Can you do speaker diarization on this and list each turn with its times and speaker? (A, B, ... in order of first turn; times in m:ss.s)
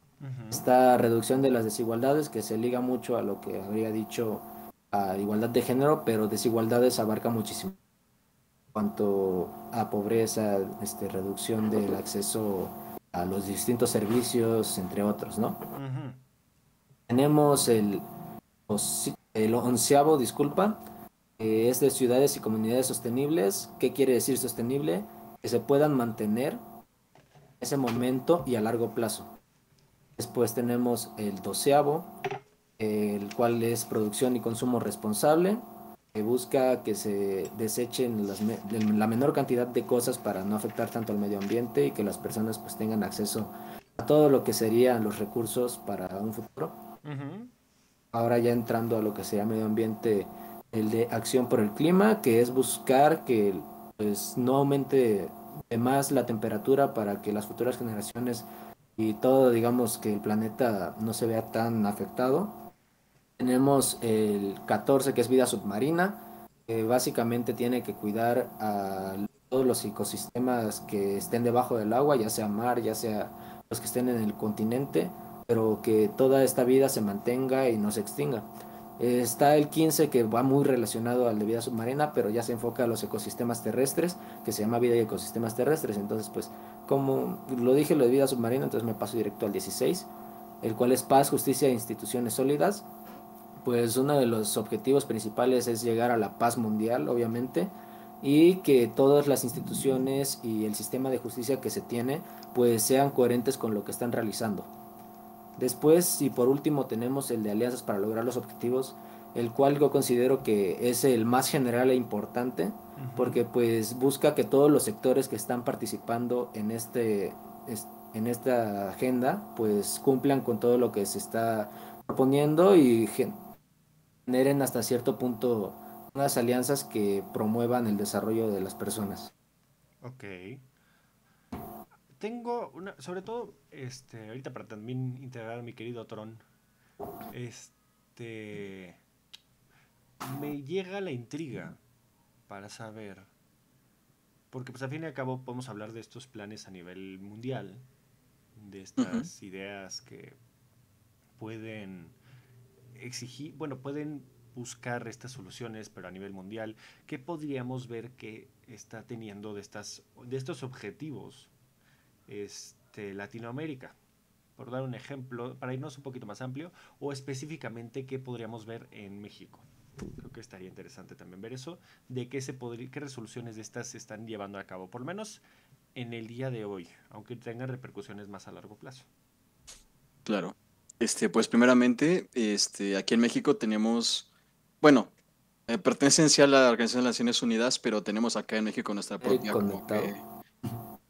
0:00.2-0:00.6 A
0:00.5-0:07.8 B
0:08.7-0:15.6 B
0:15.8-0:16.2 A
0:17.1-0:18.1 B
0:18.7-0:20.8 B
0:21.4-0:26.6 B
0:27.6-0:29.4 B
0:30.2-0:32.1 B
0:32.8-0:46.8 B
0:47.0-0:47.5 A
0:48.1-1:02.6 B
1:03.4-1:18.5 B
1:19.0-1:30.1 B
1:30.6-1:32.9 B
1:33.6-1:44.7 B
1:45.6-2:03.4 B
1:53.0-1:53.4 A
2:04.3-2:09.3 B
2:10.0-2:10.6 A
2:12.2-2:16.4 A
2:17.3-2:19.0 A
2:20.2-2:21.8 A
2:22.5-2:23.3 A
2:24.5-2:27.8 A
2:28.6-2:30.4 A
2:29.0-2:29.3 C
2:31.4-2:32.2 A
2:32.9-2:41.5 A
2:42.3-2:43.9 A
2:44.6-2:55.4 A
2:55.9-2:59.1 A
3:00.2-3:04.3 C
3:04.8-3:05.1 C
3:05.7-3:10.2 C
3:09.2-3:10.1 B